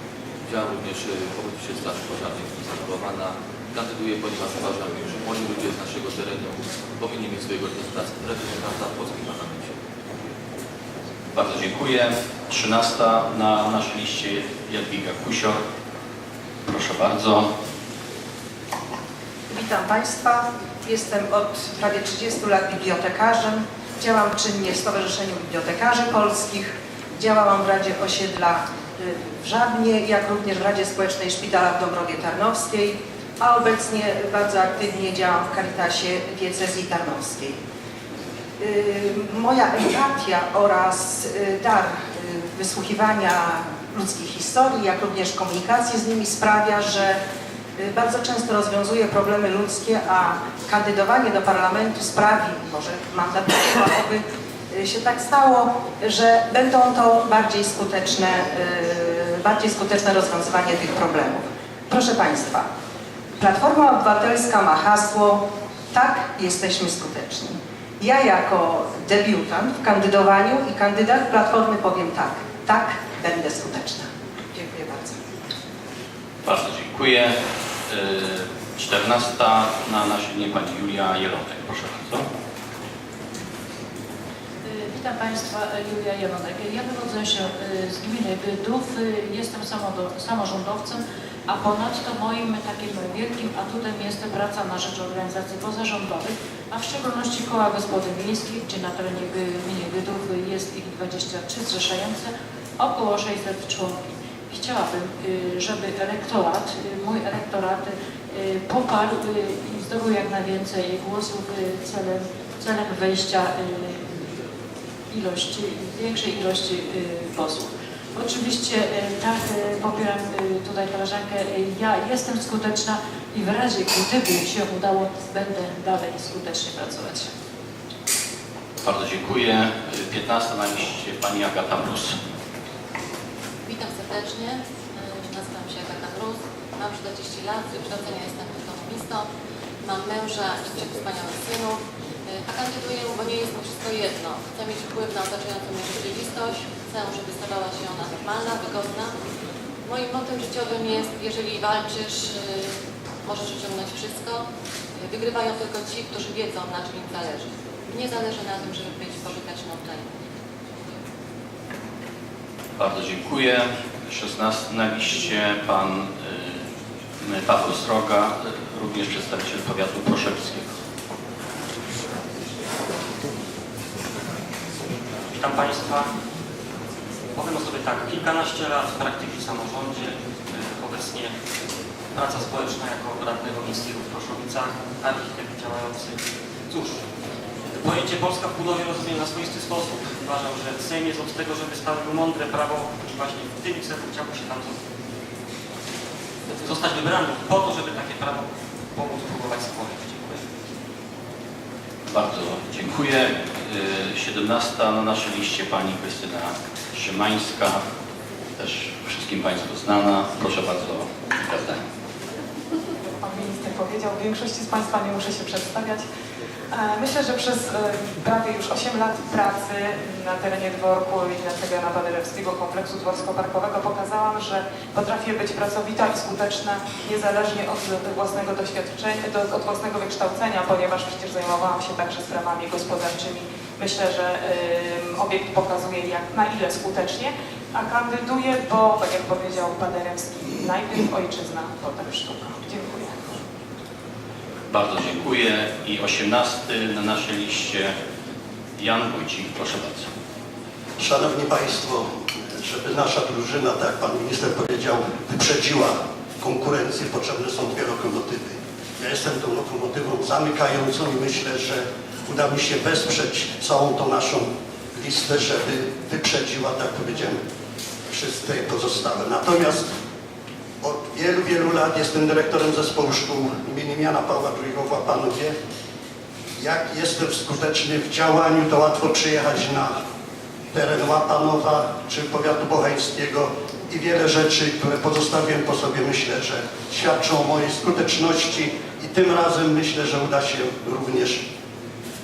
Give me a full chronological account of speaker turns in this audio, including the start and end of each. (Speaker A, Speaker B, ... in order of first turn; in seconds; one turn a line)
Speaker A: 0.5-9.7
Speaker B: 11.3-15.6
Speaker B: 16.7-17.5
Speaker C: 19.5-37.6
Speaker C: 38.6-47.2
Speaker C: 47.8-62.7
Speaker C: 63.4-75.2
Speaker B: 76.4-77.4
Speaker B: 77.9-82.2
Speaker D: 84.7-104.0
Speaker D: 104.5-114.1
Speaker D: 115.1-127.3
Speaker B: 128.8-132.2
Speaker E: 133.7-139.3
Speaker E: 139.8-149.1
Speaker E: 149.9-152.7
Speaker E: 153.2-154.4
Speaker E: 155.0-160.1
Speaker B: 162.8-166.6
Speaker B: 167.2-170.7
Speaker F: 175.3-176.1
Speaker F: 177.3-181.3
Speaker F: 182.2-186.2
Speaker F: 186.7-187.0
Speaker F: 187.7-194.8
Speaker F: 196.5-200.4
Speaker B: 202.1-207.8
Speaker B: 208.6-211.8
Speaker G: 213.2-216.0
Speaker G: 216.7-243.4
Speaker B: 244.7-247.9
Speaker B: 248.8-250.1
Speaker H: 251.0-267.4
Speaker H: 268.1-269.9
Speaker H: 270.8-275.5
Speaker H: 276.6-280.0
Speaker H: 280.7-291.4